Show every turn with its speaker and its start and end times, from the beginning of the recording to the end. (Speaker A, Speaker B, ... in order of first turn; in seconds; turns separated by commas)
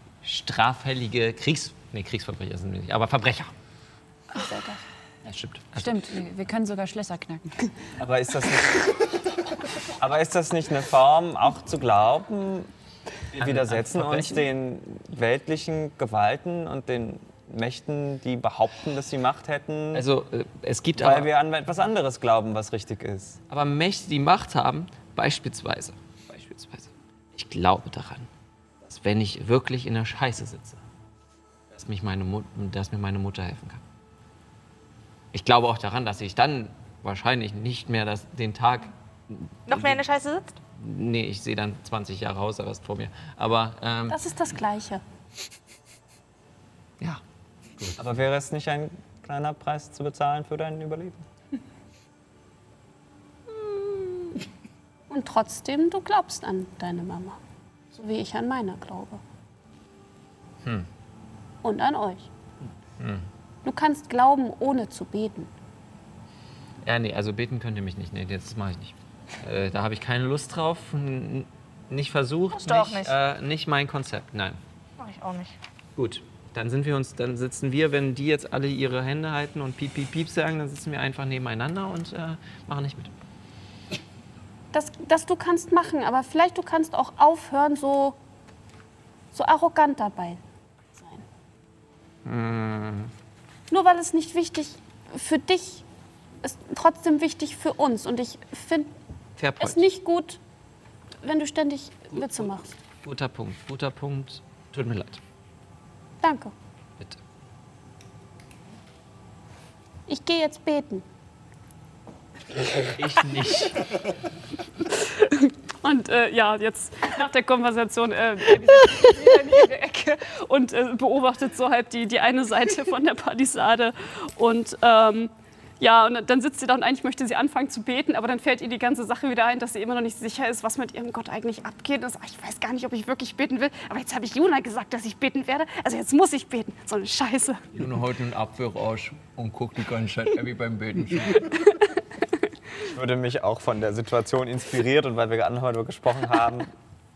Speaker A: 0.2-3.5, Speaker B: 4.3-4.8, Speaker A: 5.2-6.1, Speaker C: 5.8-7.7, Speaker D: 8.0-8.9, Speaker D: 9.9-12.7, Speaker D: 13.3-20.1, Speaker A: 13.3-14.5, Speaker A: 19.9-21.3, Speaker D: 20.9-23.4, Speaker A: 23.5-28.3, Speaker A: 28.8-30.8, Speaker A: 31.7-33.8, Speaker A: 35.3-40.0, Speaker E: 39.7-40.6, Speaker A: 40.7-44.2, Speaker B: 44.1-45.0, Speaker D: 48.0-51.2, Speaker B: 53.6-54.3, Speaker B: 55.1-57.4, Speaker B: 57.9-59.2, Speaker A: 60.6-60.9, Speaker B: 61.6-62.3, Speaker A: 63.0-63.3, Speaker B: 63.6-65.5, Speaker A: 66.8-74.6, Speaker E: 72.5-73.2, Speaker E: 75.0-75.6, Speaker A: 76.0-83.1, Speaker B: 84.7-88.2, Speaker B: 89.3-90.4, Speaker B: 91.0-91.2, Speaker A: 92.2-93.1, Speaker B: 93.7-95.8, Speaker B: 96.4-98.9, Speaker A: 99.4-99.8, Speaker B: 99.6-100.4, Speaker B: 101.2-102.7, Speaker A: 102.1-102.4, Speaker A: 103.0-105.2, Speaker B: 106.2-106.5, Speaker B: 110.1-111.0, Speaker A: 112.7-113.9, Speaker B: 114.9-137.7, Speaker A: 137.7-141.5, Speaker D: 142.8-146.7